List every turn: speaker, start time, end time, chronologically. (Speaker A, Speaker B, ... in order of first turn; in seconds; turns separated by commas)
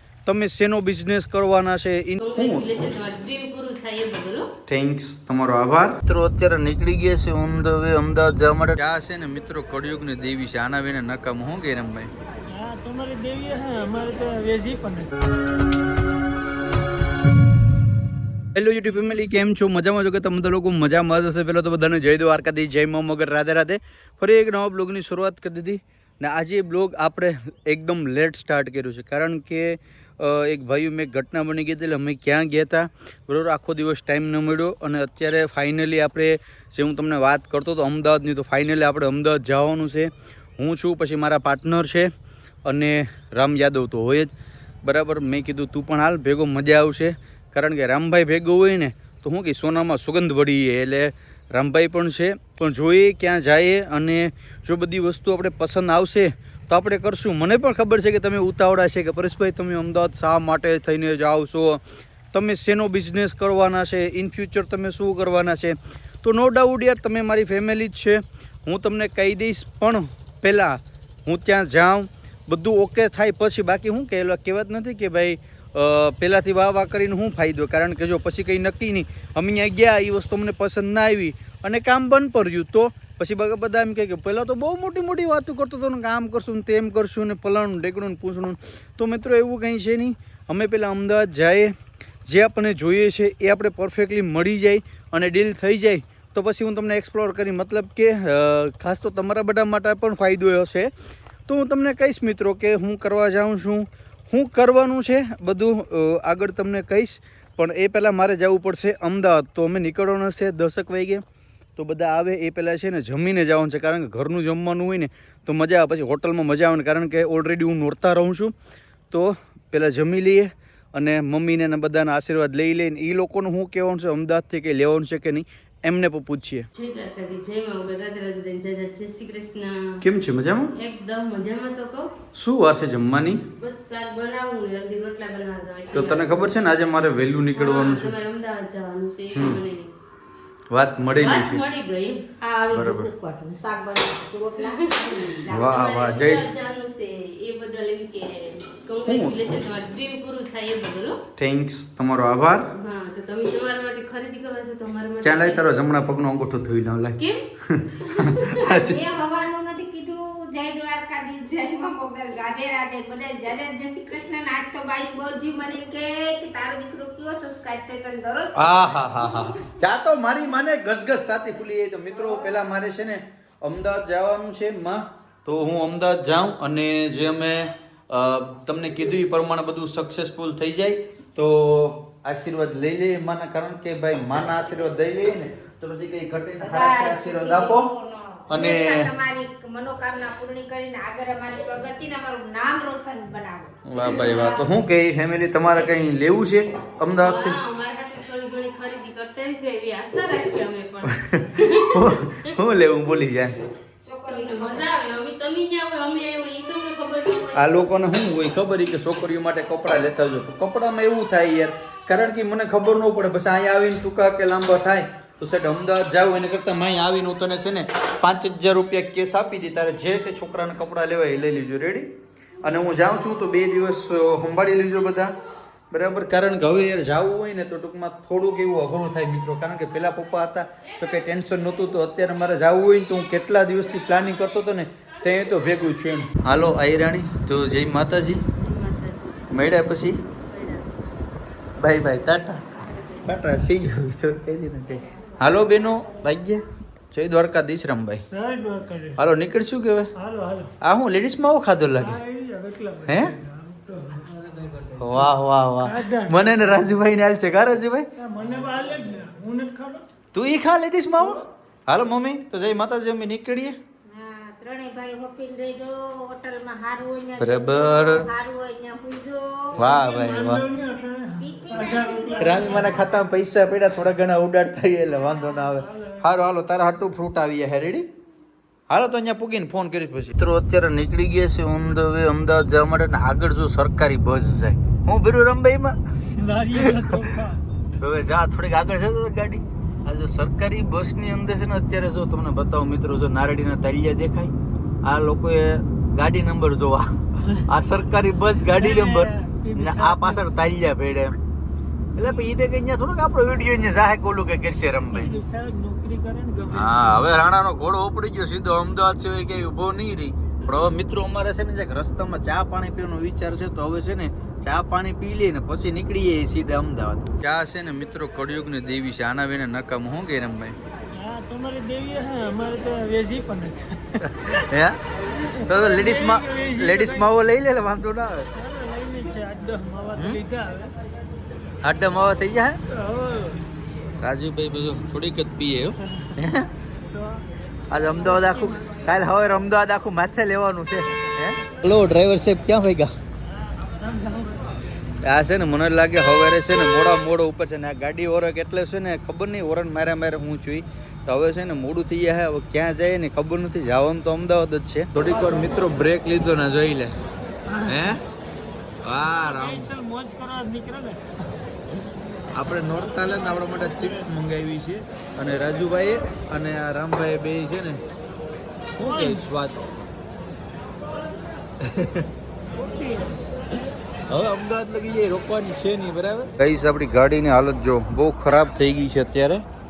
Speaker A: 0.2-2.7, Speaker B: 2.2-4.5, Speaker A: 4.7-12.1, Speaker C: 12.5-15.1, Speaker A: 18.6-42.1, Speaker A: 42.6-44.3, Speaker A: 44.8-61.8, Speaker A: 62.3-91.7, Speaker A: 92.3-100.9, Speaker A: 101.5-111.2, Speaker A: 111.8-118.5, Speaker A: 119.1-126.7, Speaker B: 126.7-130.0, Speaker A: 130.0-130.7, Speaker B: 130.8-132.1, Speaker A: 132.3-133.4, Speaker B: 133.6-136.5, Speaker A: 135.9-138.1, Speaker B: 137.5-139.9, Speaker A: 139.3-139.6, Speaker A: 140.7-141.6, Speaker B: 141.2-142.2, Speaker D: 142.4-145.9, Speaker A: 142.7-143.1, Speaker B: 144.8-151.2, Speaker A: 145.5-146.5, Speaker A: 149.1-149.4, Speaker A: 151.4-152.7, Speaker B: 152.8-155.6, Speaker A: 155.2-159.0, Speaker B: 158.1-158.6, Speaker D: 158.6-169.6, Speaker A: 168.6-187.9, Speaker D: 186.6-194.7, Speaker A: 188.5-189.1, Speaker A: 193.9-197.6, Speaker B: 197.2-202.6, Speaker A: 201.1-203.6, Speaker D: 204.0-204.9, Speaker B: 204.3-207.6, Speaker A: 207.5-222.1, Speaker A: 222.6-225.4, Speaker A: 225.9-238.4, Speaker B: 238.6-239.5, Speaker A: 239.5-240.2, Speaker B: 240.5-240.9, Speaker A: 241.8-248.2, Speaker C: 248.3-249.2, Speaker A: 249.2-250.1, Speaker C: 250.2-250.7, Speaker A: 250.8-252.2, Speaker C: 252.0-254.8, Speaker A: 253.1-253.4, Speaker A: 254.9-258.1, Speaker C: 255.8-256.8, Speaker C: 258.2-260.1, Speaker A: 260.3-263.8, Speaker D: 264.1-269.9, Speaker A: 267.4-268.3, Speaker A: 269.8-270.6, Speaker C: 269.8-273.0, Speaker D: 271.4-273.3, Speaker A: 272.4-278.1, Speaker D: 275.2-275.7, Speaker C: 275.8-276.2, Speaker A: 278.9-286.0, Speaker C: 286.3-287.6, Speaker A: 286.8-287.3, Speaker A: 288.0-301.4, Speaker C: 297.4-297.7, Speaker C: 298.7-300.6, Speaker A: 302.2-305.4, Speaker C: 305.1-307.3, Speaker A: 306.7-320.8, Speaker C: 321.1-324.7, Speaker A: 324.2-325.0, Speaker C: 325.3-327.3, Speaker A: 325.6-328.5, Speaker C: 328.6-330.9, Speaker A: 330.1-330.4, Speaker A: 331.8-332.8, Speaker C: 332.9-333.7, Speaker A: 334.2-336.7, Speaker C: 336.1-336.3, Speaker C: 337.0-339.1, Speaker A: 337.9-343.1, Speaker C: 343.5-344.8, Speaker A: 345.2-357.1, Speaker C: 357.7-358.2, Speaker A: 357.8-358.2, Speaker A: 359.0-359.9, Speaker C: 359.4-361.6, Speaker A: 362.6-368.0, Speaker A: 369.0-369.9, Speaker C: 369.0-369.5, Speaker A: 371.8-372.3, Speaker A: 372.9-373.3, Speaker A: 374.3-379.6